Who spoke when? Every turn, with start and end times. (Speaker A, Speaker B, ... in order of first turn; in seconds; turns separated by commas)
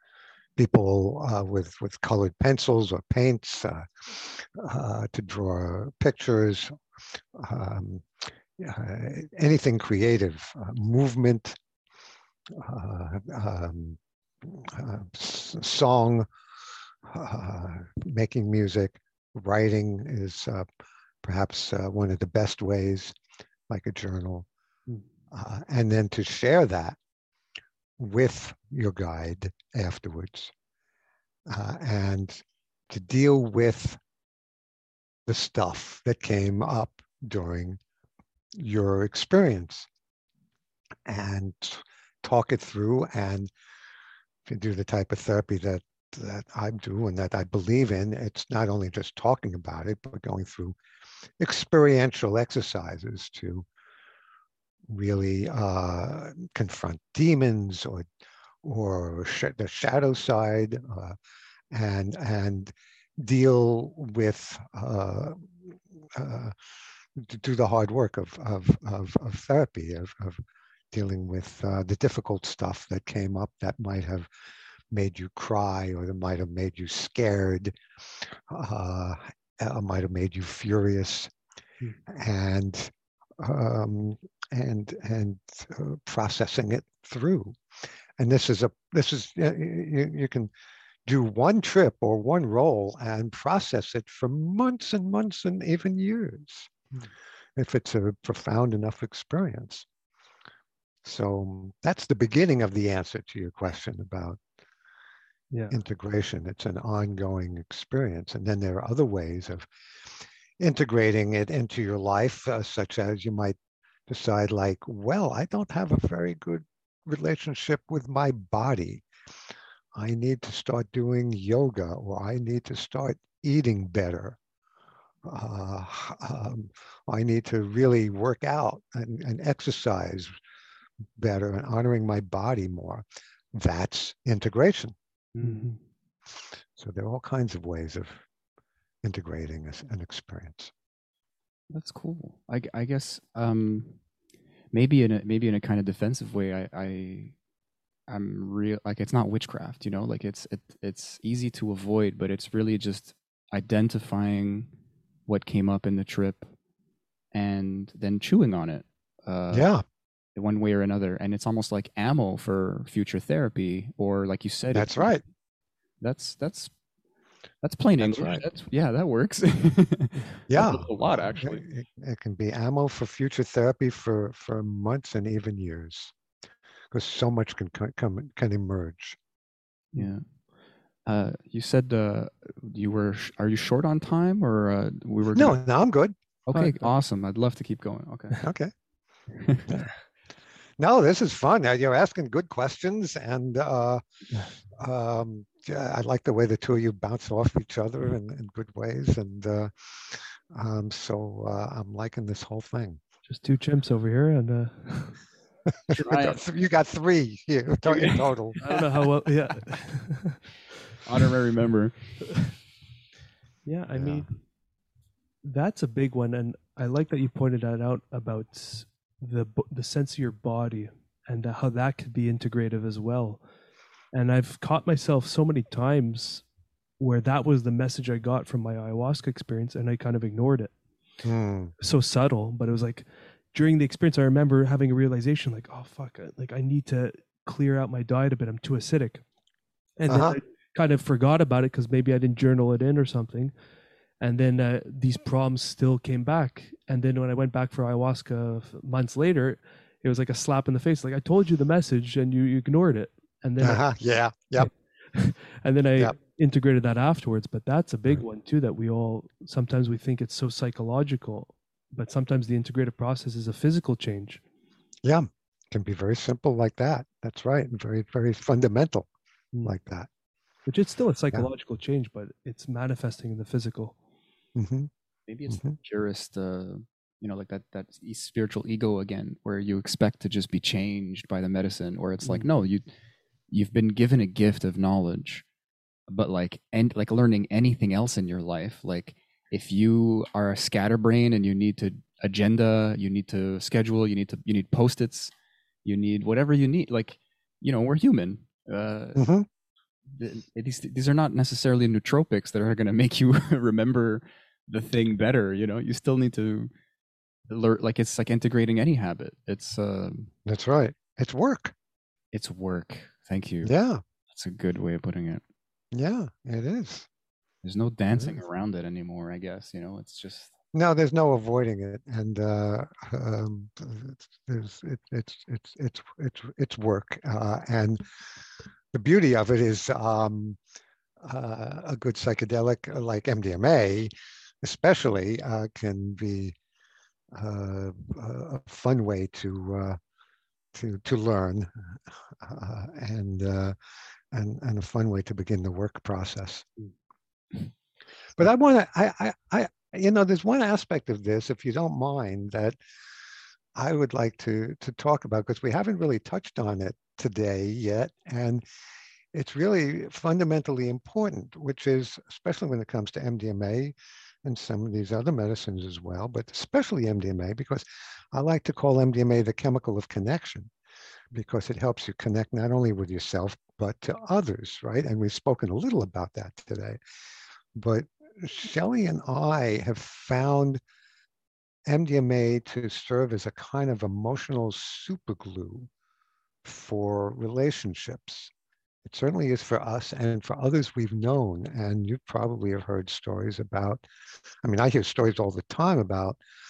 Speaker A: 0.6-6.7, Speaker A: 7.3-11.6, Speaker A: 12.5-16.3, Speaker A: 17.1-20.7, Speaker A: 21.2-23.2, Speaker A: 23.7-24.5, Speaker A: 25.3-27.0, Speaker A: 28.0-30.5, Speaker A: 31.5-34.0, Speaker A: 35.3-37.8, Speaker A: 38.6-39.9, Speaker A: 41.1-43.5, Speaker A: 44.5-50.8, Speaker A: 51.4-53.7, Speaker A: 54.9-58.1, Speaker A: 58.6-61.2, Speaker A: 61.7-66.6, Speaker A: 67.2-74.3, Speaker A: 74.9-81.3, Speaker A: 82.1-87.6, Speaker A: 88.2-90.5, Speaker A: 91.1-96.7, Speaker A: 97.6-99.9, Speaker A: 101.0-104.4, Speaker A: 105.7-109.7, Speaker A: 110.6-113.6, Speaker A: 114.1-119.0, Speaker A: 120.0-124.4, Speaker A: 125.2-130.3, Speaker A: 131.2-135.0, Speaker B: 135.4-135.8, Speaker A: 136.8-138.2, Speaker A: 139.0-140.7, Speaker C: 141.7-144.0, Speaker C: 144.7-147.4, Speaker C: 148.1-154.7, Speaker C: 155.3-156.5, Speaker C: 157.3-159.7, Speaker A: 159.5-159.8, Speaker C: 160.4-165.1, Speaker A: 164.7-165.2, Speaker C: 166.0-166.7, Speaker C: 167.6-171.6, Speaker A: 168.0-168.4, Speaker A: 170.5-176.1, Speaker A: 176.9-179.2, Speaker C: 179.9-180.3, Speaker C: 181.1-185.6, Speaker A: 185.3-186.2, Speaker C: 186.5-188.4, Speaker B: 186.6-186.9, Speaker A: 188.4-188.7, Speaker C: 189.3-189.7, Speaker A: 190.8-194.0, Speaker A: 194.8-203.0, Speaker B: 203.3-205.2, Speaker A: 205.9-208.6, Speaker C: 205.9-206.4, Speaker C: 207.9-208.8, Speaker B: 208.6-210.4, Speaker C: 211.0-212.2, Speaker B: 213.7-214.3, Speaker A: 213.9-214.2, Speaker B: 215.4-223.4, Speaker B: 224.1-226.4, Speaker B: 227.0-230.7, Speaker A: 231.2-231.7, Speaker B: 231.8-239.2, Speaker B: 240.0-243.5, Speaker A: 240.1-240.4, Speaker B: 244.2-253.8, Speaker A: 253.6-254.7, Speaker B: 254.6-264.4, Speaker A: 265.0-269.1, Speaker A: 269.6-270.1, Speaker B: 270.7-274.0, Speaker A: 274.6-274.9, Speaker C: 275.3-282.9, Speaker A: 275.5-275.8, Speaker C: 283.5-285.4, Speaker C: 286.1-295.3, Speaker C: 295.9-299.3, Speaker A: 299.2-299.5, Speaker C: 300.1-306.7, Speaker C: 307.5-310.3, Speaker A: 310.5-311.8, Speaker C: 312.3-313.7, Speaker A: 313.6-314.0, Speaker C: 314.3-315.4, Speaker A: 315.9-317.1, Speaker C: 317.6-320.5, Speaker A: 318.1-318.4, Speaker A: 320.7-328.0, Speaker A: 328.9-330.6, Speaker A: 331.2-334.1, Speaker A: 334.6-336.6, Speaker A: 337.3-340.0, Speaker A: 340.7-343.8, Speaker A: 344.3-346.7, Speaker A: 348.4-352.8, Speaker A: 353.8-358.6, Speaker A: 359.3-370.7, Speaker A: 371.3-377.0, Speaker A: 377.8-380.8, Speaker A: 381.9-385.9, Speaker A: 386.6-388.5, Speaker A: 389.1-394.1, Speaker A: 394.6-396.4